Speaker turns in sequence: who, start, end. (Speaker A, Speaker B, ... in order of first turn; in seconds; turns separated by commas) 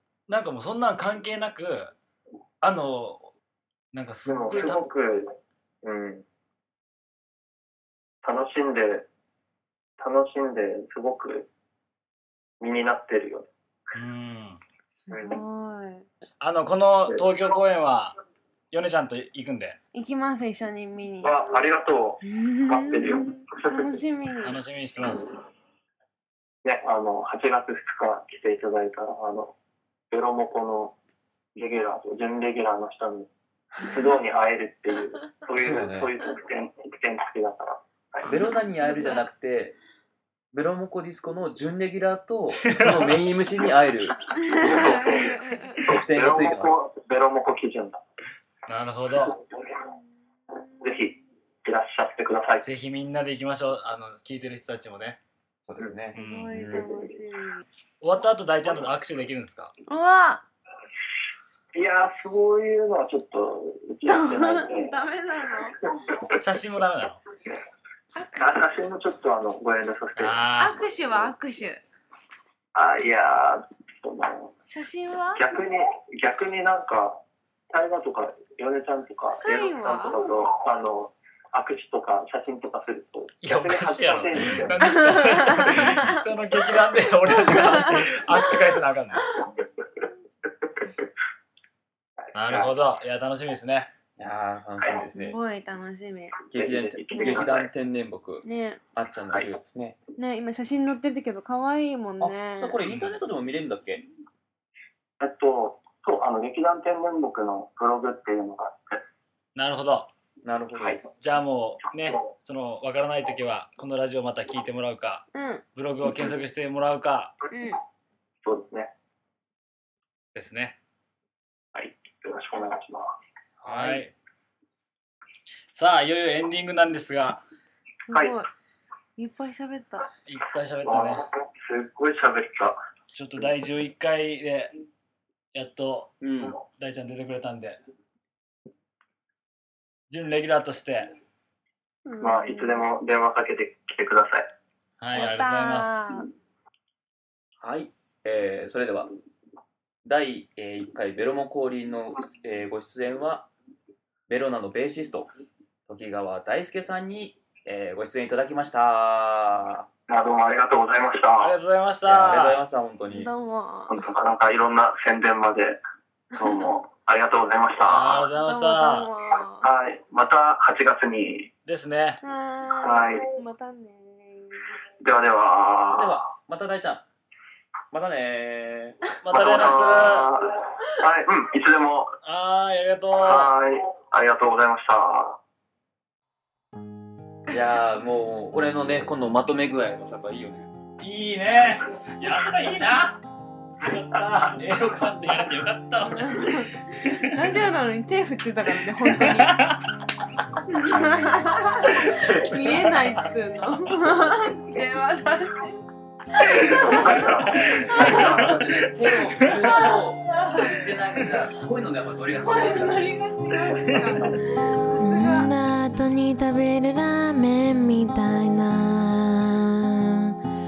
Speaker A: 0.3-1.9, Speaker A: 2.6-3.3, Speaker A: 3.9-4.8, Speaker B: 4.2-5.3, Speaker B: 5.8-6.2, Speaker B: 8.2-9.1, Speaker B: 10.0-11.5, Speaker B: 12.6-13.5, Speaker A: 13.9-14.6, Speaker C: 15.1-16.1, Speaker B: 15.1-15.4, Speaker A: 16.4-18.1, Speaker A: 18.7-19.8, Speaker C: 19.9-21.3, Speaker B: 21.2-24.0, Speaker C: 22.2-24.6, Speaker A: 24.4-25.3, Speaker B: 25.0-25.3, Speaker B: 26.6-29.5, Speaker B: 30.1-30.9, Speaker B: 31.6-38.3, Speaker D: 35.5-36.1, Speaker D: 38.2-39.8, Speaker C: 38.8-39.2, Speaker D: 40.5-45.2, Speaker A: 42.6-43.2, Speaker C: 44.4-45.8, Speaker B: 44.6-48.0, Speaker D: 45.8-46.8, Speaker A: 48.7-49.4, Speaker B: 49.2-49.6, Speaker C: 50.5-50.8, Speaker B: 50.8-52.6, Speaker A: 52.6-55.2, Speaker D: 55.6-57.0, Speaker C: 56.1-57.6, Speaker A: 56.1-56.8, Speaker A: 58.0-59.7, Speaker C: 59.9-60.4, Speaker B: 61.7-64.9, Speaker C: 64.0-65.8, Speaker B: 66.1-66.3, Speaker A: 66.4-67.2, Speaker C: 68.1-68.5, Speaker B: 68.3-70.5, Speaker A: 70.2-70.9, Speaker C: 70.6-71.8, Speaker B: 72.7-74.5, Speaker C: 74.7-75.4, Speaker B: 75.3-84.8, Speaker C: 79.3-80.2, Speaker A: 83.4-89.3, Speaker C: 84.8-86.7, Speaker C: 87.3-88.5, Speaker B: 92.2-92.7, Speaker A: 92.3-93.9, Speaker D: 94.2-95.4, Speaker C: 95.2-96.4, Speaker D: 96.5-100.0, Speaker B: 96.5-97.7, Speaker C: 97.1-97.5, Speaker C: 98.4-98.8, Speaker C: 100.2-102.8, Speaker D: 102.2-104.0, Speaker A: 102.9-103.2, Speaker B: 105.2-109.0, Speaker A: 109.5-110.1, Speaker D: 110.4-111.0, Speaker B: 110.8-111.0, Speaker A: 111.2-117.4, Speaker C: 115.3-115.6, Speaker C: 117.5-117.8, Speaker B: 118.4-118.9, Speaker A: 120.3-120.8, Speaker B: 121.7-123.1, Speaker D: 123.6-124.1, Speaker A: 123.6-124.1, Speaker A: 125.7-127.4, Speaker C: 128.1-128.5, Speaker C: 129.2-130.1, Speaker A: 130.2-131.2, Speaker B: 130.8-132.8, Speaker A: 133.1-134.7, Speaker A: 135.5-137.8, Speaker D: 136.2-136.6, Speaker A: 140.1-141.1, Speaker C: 142.0-142.8, Speaker B: 142.2-144.5, Speaker A: 145.0-146.1, Speaker C: 145.1-146.3, Speaker D: 147.6-149.1, Speaker D: 150.0-153.5, Speaker D: 154.3-155.3, Speaker D: 155.9-159.9, Speaker B: 160.1-161.5, Speaker A: 161.4-162.6, Speaker D: 162.0-163.3, Speaker C: 163.1-164.1, Speaker B: 163.9-165.8, Speaker C: 166.3-166.7, Speaker B: 166.4-168.3, Speaker A: 167.8-169.1, Speaker C: 168.4-169.7, Speaker B: 169.6-171.5, Speaker A: 171.7-172.2, Speaker C: 172.2-174.7, Speaker B: 172.8-173.3, Speaker B: 175.0-176.2, Speaker D: 175.9-177.0, Speaker D: 177.9-179.0, Speaker A: 179.2-180.3, Speaker B: 179.3-182.2, Speaker A: 182.2-183.5, Speaker B: 183.2-185.4, Speaker D: 187.5-190.7, Speaker A: 191.0-193.2, Speaker A: 193.8-197.6, Speaker C: 196.2-196.7, Speaker C: 197.2-199.7, Speaker A: 198.9-199.8, Speaker C: 200.7-208.5, Speaker A: 201.9-203.0, Speaker B: 206.6-208.5, Speaker A: 207.2-209.5, Speaker D: 207.5-213.1, Speaker C: 209.7-210.8, Speaker C: 212.4-215.5, Speaker A: 213.6-214.3, Speaker E: 215.0-220.3